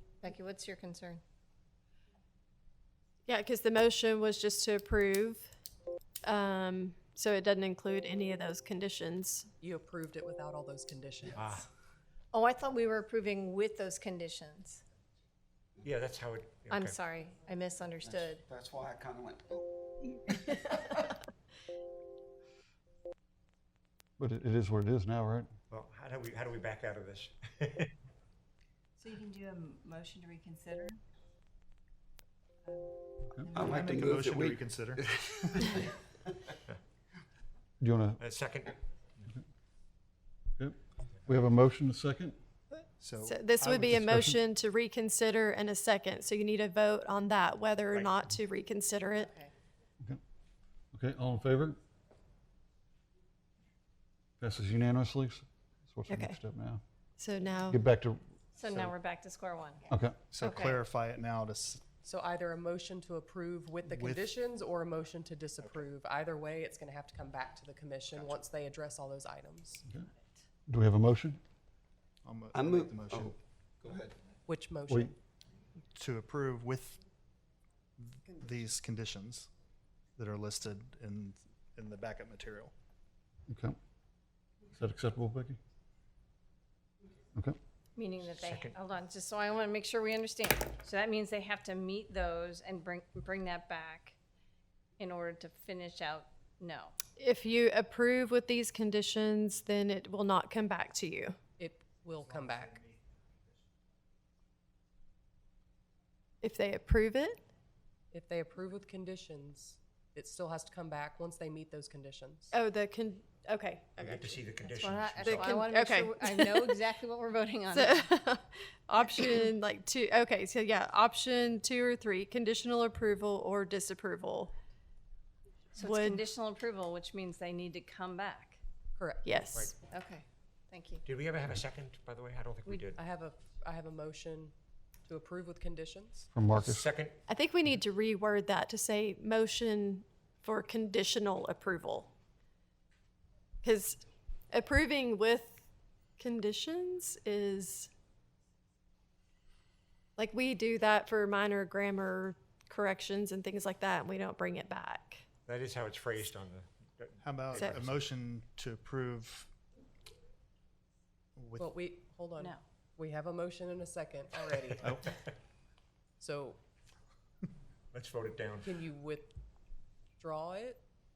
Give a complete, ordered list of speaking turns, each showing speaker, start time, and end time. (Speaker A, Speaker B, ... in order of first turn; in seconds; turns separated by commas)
Speaker A: 0.2-1.2, Speaker B: 3.3-5.5, Speaker B: 6.2-9.5, Speaker C: 9.6-11.6, Speaker D: 11.3-11.6, Speaker A: 12.4-14.8, Speaker D: 15.8-17.0, Speaker A: 17.1-17.8, Speaker E: 18.0-19.6, Speaker F: 24.2-25.5, Speaker D: 25.7-27.9, Speaker G: 29.0-31.0, Speaker E: 33.5-35.9, Speaker H: 33.6-35.4, Speaker F: 37.8-38.2, Speaker D: 38.2-38.8, Speaker F: 40.6-42.4, Speaker H: 43.0-44.0, Speaker B: 43.2-49.4, Speaker F: 43.8-44.4, Speaker F: 50.9-51.8, Speaker F: 54.4-56.8, Speaker B: 56.1-56.4, Speaker B: 57.2-57.8, Speaker F: 57.7-58.9, Speaker A: 58.6-59.8, Speaker F: 59.9-60.2, Speaker H: 60.3-61.8, Speaker C: 62.0-69.8, Speaker H: 63.9-64.3, Speaker F: 70.7-71.4, Speaker H: 72.2-73.3, Speaker E: 72.5-74.1, Speaker C: 74.5-75.2, Speaker F: 74.9-75.1, Speaker H: 75.9-77.0, Speaker H: 78.0-79.5, Speaker H: 80.2-82.7, Speaker F: 83.5-83.8, Speaker F: 84.7-85.6, Speaker A: 88.0-94.2, Speaker D: 88.3-88.8, Speaker A: 95.0-96.9, Speaker B: 97.2-101.4, Speaker C: 101.6-102.8, Speaker H: 102.2-103.1, Speaker B: 106.4-107.4, Speaker C: 108.1-112.5, Speaker B: 112.5-116.9, Speaker D: 114.0-115.6, Speaker A: 115.1-118.0, Speaker B: 117.7-124.5, Speaker A: 125.8-128.6, Speaker B: 125.8-126.2, Speaker C: 129.0-129.4, Speaker B: 129.2-129.7, Speaker A: 130.0-131.0, Speaker D: 131.1-133.0, Speaker C: 132.7-134.5, Speaker C: 135.1-136.3, Speaker F: 136.3-136.9, Speaker D: 136.5-137.2, Speaker B: 137.3-142.1, Speaker B: 143.6-145.6, Speaker B: 146.2-147.9, Speaker B: 150.2-155.2, Speaker D: 155.5-158.1, Speaker H: 157.2-159.5, Speaker H: 161.3-161.7, Speaker C: 161.6-164.9, Speaker D: 164.8-165.1, Speaker H: 164.8-165.1, Speaker C: 166.2-166.6, Speaker D: 167.9-168.7, Speaker C: 168.6-169.3, Speaker C: 170.2-170.8